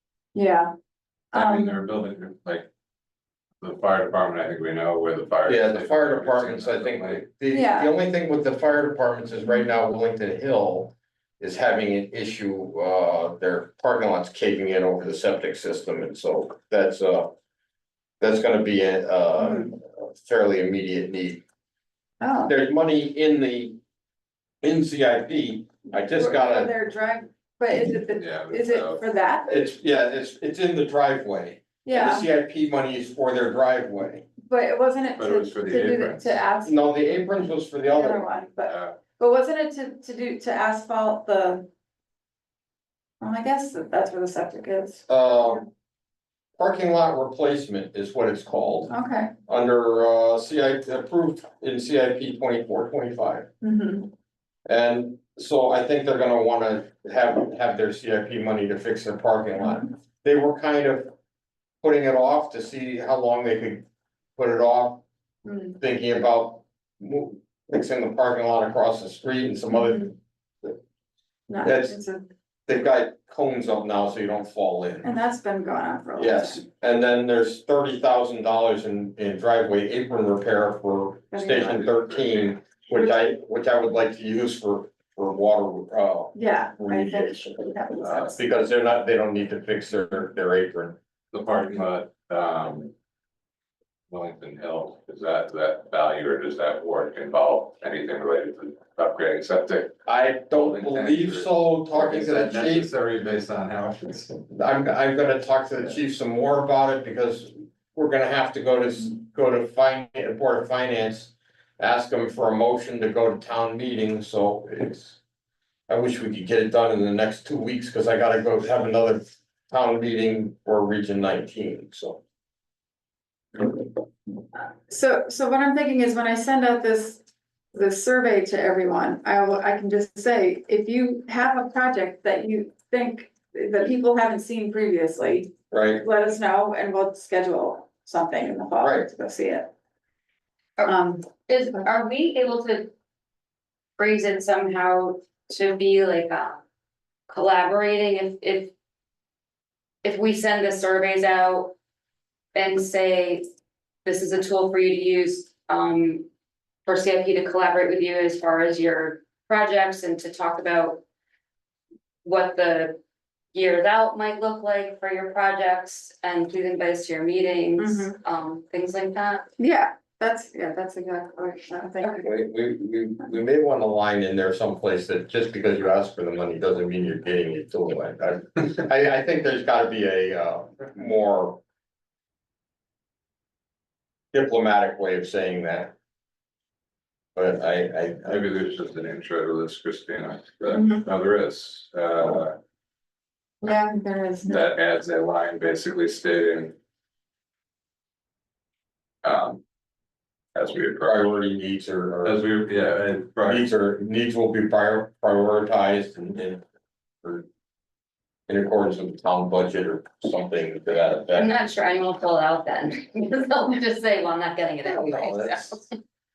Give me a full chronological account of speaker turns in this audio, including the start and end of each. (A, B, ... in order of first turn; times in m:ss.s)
0:00.3-0:00.7 A
0:01.3-0:01.8 A
0:01.3-0:02.7 B
0:03.6-0:07.2 B
0:05.4-0:17.3 C
0:07.5-0:07.9 A
0:18.2-0:21.4 C
0:19.4-0:19.7 A
0:22.2-0:22.5 A
0:22.5-0:23.8 C
0:24.6-0:26.7 C
0:25.9-0:29.6 A
0:28.1-0:29.0 B
0:29.5-0:34.3 C
0:31.8-0:32.3 A
0:34.4-0:36.8 A
0:35.1-0:36.4 B
0:36.6-0:38.3 C
0:37.9-0:41.7 A
0:38.7-0:39.0 B
0:43.2-0:45.6 A
0:45.1-0:45.6 C
0:46.6-0:48.9 C
0:48.9-0:49.3 A
0:49.5-0:53.5 C
0:53.6-0:54.1 A
0:54.6-1:01.1 C
1:01.8-1:03.8 C
1:04.4-1:05.0 C
1:05.4-1:05.8 A
1:05.8-1:10.8 C
1:11.5-1:12.3 A
1:11.6-1:12.0 C
1:12.7-1:15.2 C
1:15.0-1:16.6 A
1:16.2-1:31.0 C
1:21.3-1:21.8 A
1:21.7-1:22.5 B
1:26.3-1:28.4 A
1:28.0-1:28.3 B
1:31.3-1:32.9 B
1:34.1-1:44.4 B
1:40.0-1:42.9 C
1:44.5-1:55.2 C
1:55.9-2:02.2 C
2:04.9-2:07.2 A
2:07.7-2:19.7 A
2:15.7-2:16.0 C
2:18.8-2:19.1 C
2:20.8-2:22.9 D
2:20.8-2:21.3 A
2:24.0-2:26.6 D
2:27.3-2:28.7 D
2:30.0-2:31.7 D
2:32.5-2:33.4 D
2:34.0-2:36.3 D
2:36.8-2:41.0 D
2:42.2-2:43.0 D
2:43.5-2:49.5 D
2:47.8-2:48.2 A
2:49.6-2:52.3 A
2:52.1-3:01.6 C
3:04.3-3:05.9 C
3:07.3-3:08.4 C
3:08.2-3:12.6 B
3:10.7-3:11.0 A
3:13.6-3:14.6 A
3:14.4-3:16.7 B
3:19.2-3:19.6 B
3:20.5-3:21.4 B
3:21.0-3:22.4 C
3:22.2-3:23.7 B
3:23.4-3:26.6 C
3:28.5-3:31.6 C
3:31.4-3:35.9 D
3:34.8-3:35.8 C